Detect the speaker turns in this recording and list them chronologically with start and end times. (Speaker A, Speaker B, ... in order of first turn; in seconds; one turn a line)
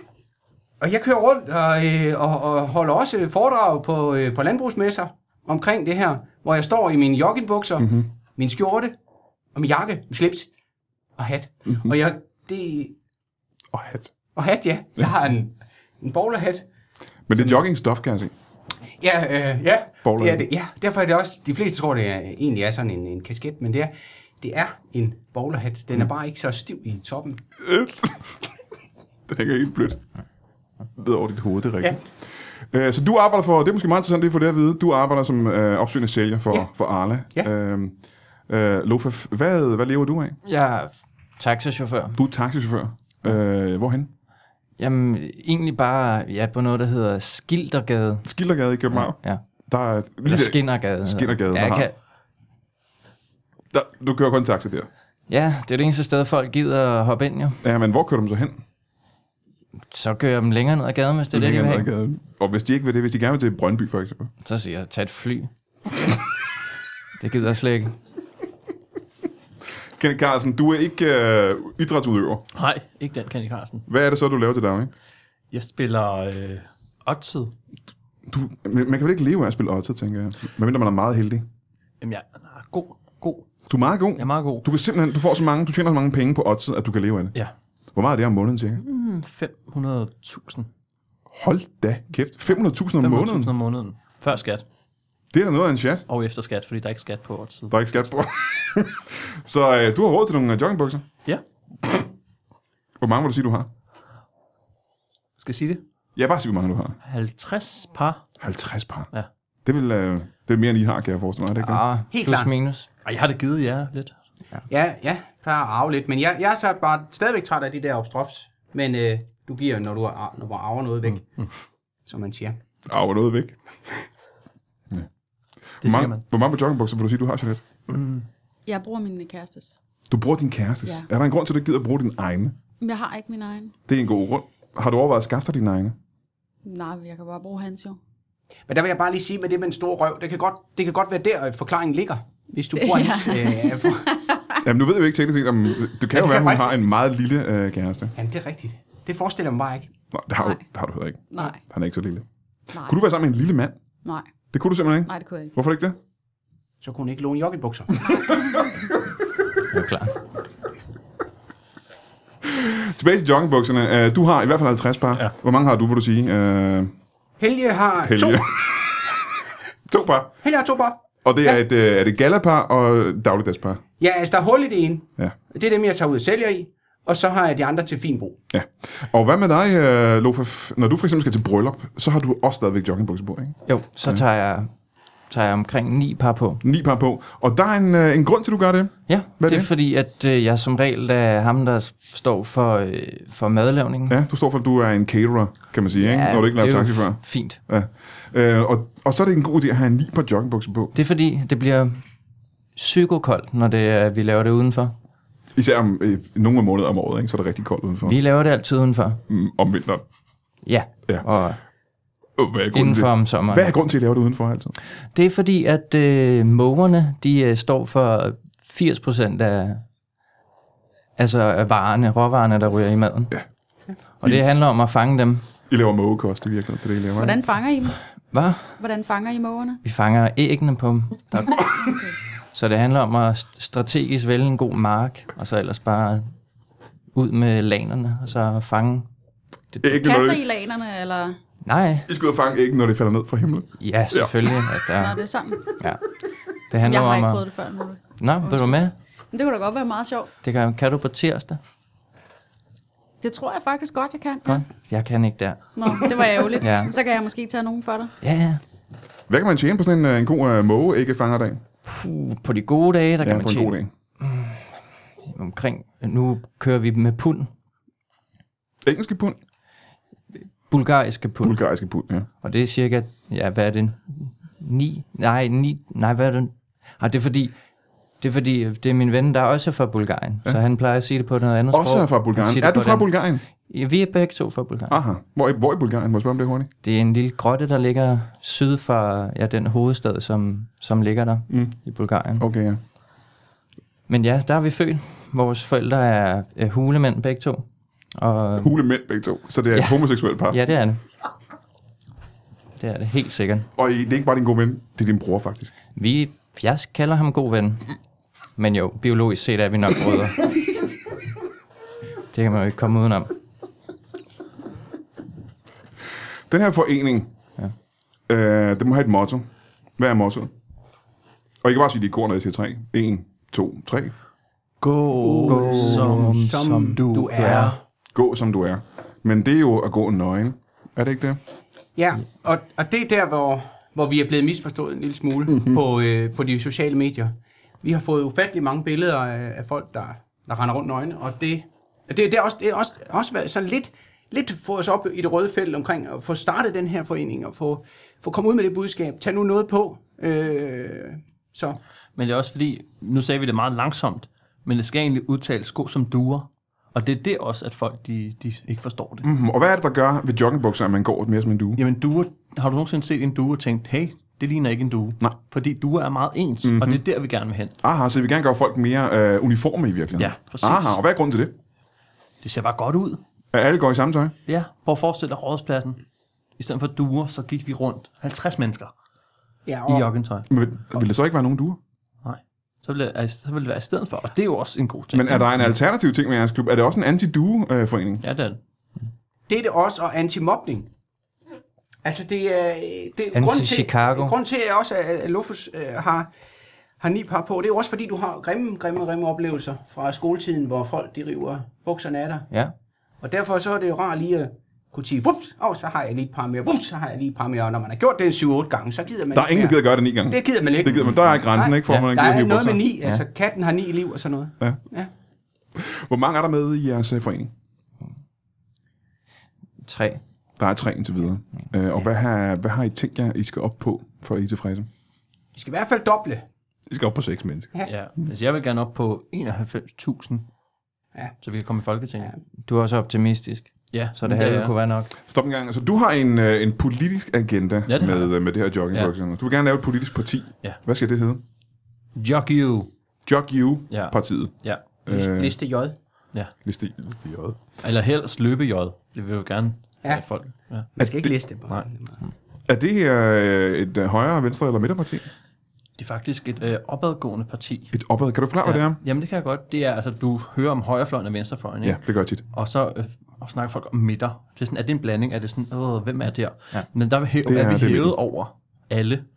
Speaker A: 0.8-8.9
Speaker B: 7.8-8.1
Speaker A: 9.6-10.5
Speaker A: 11.2-12.9
Speaker B: 11.7-11.9
Speaker B: 13.7-14.1
Speaker A: 14.4-16.7
Speaker B: 17.3-18.3
Speaker A: 17.3-17.6
Speaker A: 19.0-27.4
Speaker B: 20.0-20.5
Speaker B: 27.6-28.3
Speaker B: 29.3-30.0
Speaker B: 31.0-32.1
Speaker B: 32.7-38.0
Speaker B: 38.5-40.4
Speaker C: 40.5-42.2
Speaker B: 42.1-44.1
Speaker C: 44.8-48.3
Speaker B: 48.2-51.9
Speaker C: 48.9-49.4
Speaker C: 50.2-52.0
Speaker B: 53.7-54.9
Speaker C: 55.3-57.6
Speaker B: 57.6-58.6
Speaker C: 59.9-61.9
Speaker B: 61.3-64.3
Speaker C: 64.4-65.5
Speaker C: 67.2-68.0
Speaker B: 70.0-72.5
Speaker D: 72.5-73.9
Speaker B: 73.9-74.9
Speaker D: 75.5-77.5
Speaker B: 78.3-81.5
Speaker D: 82.0-83.5
Speaker B: 83.7-87.3
Speaker D: 84.2-84.7
Speaker B: 88.0-88.8
Speaker D: 88.8-90.7
Speaker B: 91.3-93.5
Speaker D: 93.0-94.7
Speaker B: 95.3-96.1
Speaker D: 96.1-98.1
Speaker B: 97.7-101.1
Speaker B: 103.0-103.7
Speaker D: 105.4-105.8
Speaker B: 106.2-107.0
Speaker D: 107.0-108.3
Speaker B: 108.4-109.1
Speaker B: 109.7-111.8
Speaker C: 111.6-112.9
Speaker A: 112.1-112.5
Speaker D: 113.0-114.2
Speaker A: 114.7-121.3
Speaker D: 121.1-121.5
Speaker A: 122.1-122.6
Speaker B: 122.9-123.6
Speaker B: 125.8-127.6
Speaker D: 125.8-126.2
Speaker D: 127.9-128.3
Speaker E: 128.7-129.8
Speaker B: 130.1-132.6
Speaker E: 132.8-133.7
Speaker B: 133.9-136.0
Speaker E: 136.7-138.0
Speaker A: 138.7-144.1
Speaker E: 142.8-144.6
Speaker B: 144.6-148.1
Speaker A: 146.1-146.8
Speaker A: 148.2-149.9
Speaker B: 150.1-153.8
Speaker E: 151.3-151.6
Speaker B: 154.5-156.0
Speaker E: 155.1-155.6
Speaker A: 156.8-158.1
Speaker E: 158.0-158.8
Speaker C: 159.7-160.2
Speaker B: 162.4-166.9
Speaker A: 167.4-168.5
Speaker B: 168.0-169.2
Speaker B: 169.9-170.4
Speaker A: 170.4-171.0
Speaker B: 171.2-173.8
Speaker A: 174.0-178.4
Speaker B: 178.5-184.2
Speaker C: 183.7-184.7
Speaker C: 185.3-186.6
Speaker B: 186.6-189.7
Speaker C: 189.1-194.2
Speaker B: 194.1-200.9
Speaker C: 195.9-197.6
Speaker C: 200.9-202.0
Speaker C: 202.8-205.0
Speaker B: 205.6-208.2
Speaker C: 208.0-209.2
Speaker B: 209.3-210.0
Speaker C: 210.6-211.6
Speaker B: 212.4-214.8
Speaker C: 212.7-213.8
Speaker C: 215.1-219.8
Speaker C: 221.2-223.3
Speaker C: 224.2-225.4
Speaker B: 225.7-227.4
Speaker E: 227.2-228.0
Speaker C: 228.3-228.8
Speaker E: 228.7-229.8
Speaker C: 229.8-231.6
Speaker E: 231.8-232.2
Speaker C: 232.5-236.3
Speaker C: 237.1-239.1
Speaker B: 239.8-240.4
Speaker E: 239.9-241.4
Speaker C: 241.6-242.1
Speaker B: 242.1-244.7
Speaker C: 243.8-245.2
Speaker E: 245.0-245.8
Speaker C: 246.7-247.4
Speaker E: 246.8-248.8
Speaker C: 248.2-248.9
Speaker E: 249.3-250.3
Speaker C: 250.4-251.6
Speaker E: 253.2-254.7
Speaker C: 254.5-256.9
Speaker E: 255.8-258.1
Speaker C: 258.2-258.6
Speaker B: 259.3-261.6
Speaker C: 261.9-264.6
Speaker B: 263.2-263.9
Speaker C: 265.2-267.5
Speaker B: 268.8-269.4
Speaker C: 270.7-271.6
Speaker B: 271.4-272.3
Speaker C: 272.4-277.6
Speaker C: 278.2-283.1
Speaker B: 281.7-283.4
Speaker C: 283.6-285.0
Speaker B: 284.9-286.7
Speaker C: 286.8-292.4
Speaker B: 291.5-291.8
Speaker B: 292.4-292.8
Speaker C: 294.1-298.8
Speaker B: 298.6-300.6
Speaker C: 299.7-301.0
Speaker C: 302.8-303.7
Speaker B: 303.8-305.7
Speaker C: 305.9-307.9
Speaker C: 308.6-310.8
Speaker C: 312.3-313.3
Speaker B: 316.5-317.3
Speaker B: 318.3-320.5
Speaker B: 321.6-324.1
Speaker D: 324.8-327.8
Speaker A: 325.2-327.8
Speaker C: 325.4-327.7
Speaker B: 328.1-331.4
Speaker A: 332.0-351.8
Speaker D: 352.2-359.3
Speaker B: 359.2-361.8
Speaker D: 361.8-367.8
Speaker B: 366.6-367.0
Speaker B: 367.8-371.5
Speaker D: 370.2-371.0
Speaker D: 372.4-373.2
Speaker B: 373.5-374.4
Speaker D: 374.5-376.0
Speaker D: 376.6-378.9
Speaker A: 379.7-380.1
Speaker D: 379.9-380.5
Speaker B: 380.5-381.8
Speaker D: 382.2-385.5
Speaker B: 385.1-388.2
Speaker D: 388.2-388.6
Speaker A: 389.5-390.9
Speaker A: 392.0-396.3
Speaker C: 393.3-394.4
Speaker A: 397.0-402.5
Speaker A: 403.2-415.1
Speaker B: 409.3-412.9
Speaker B: 415.8-417.5
Speaker C: 419.8-420.2
Speaker B: 420.6-424.9
Speaker A: 425.5-426.4
Speaker B: 426.9-427.7
Speaker D: 427.9-430.5
Speaker D: 431.4-432.3
Speaker C: 432.7-435.1
Speaker D: 433.9-434.7
Speaker B: 435.2-441.4
Speaker D: 437.9-438.3
Speaker D: 442.2-442.9
Speaker B: 443.3-445.6
Speaker D: 443.9-444.9
Speaker A: 445.1-446.0
Speaker B: 446.6-447.6
Speaker D: 447.8-450.9
Speaker A: 451.0-452.2
Speaker B: 451.0-451.3
Speaker B: 452.7-455.3
Speaker D: 456.0-457.9
Speaker B: 457.9-459.0
Speaker D: 458.6-469.2
Speaker B: 461.8-462.4
Speaker B: 467.4-468.2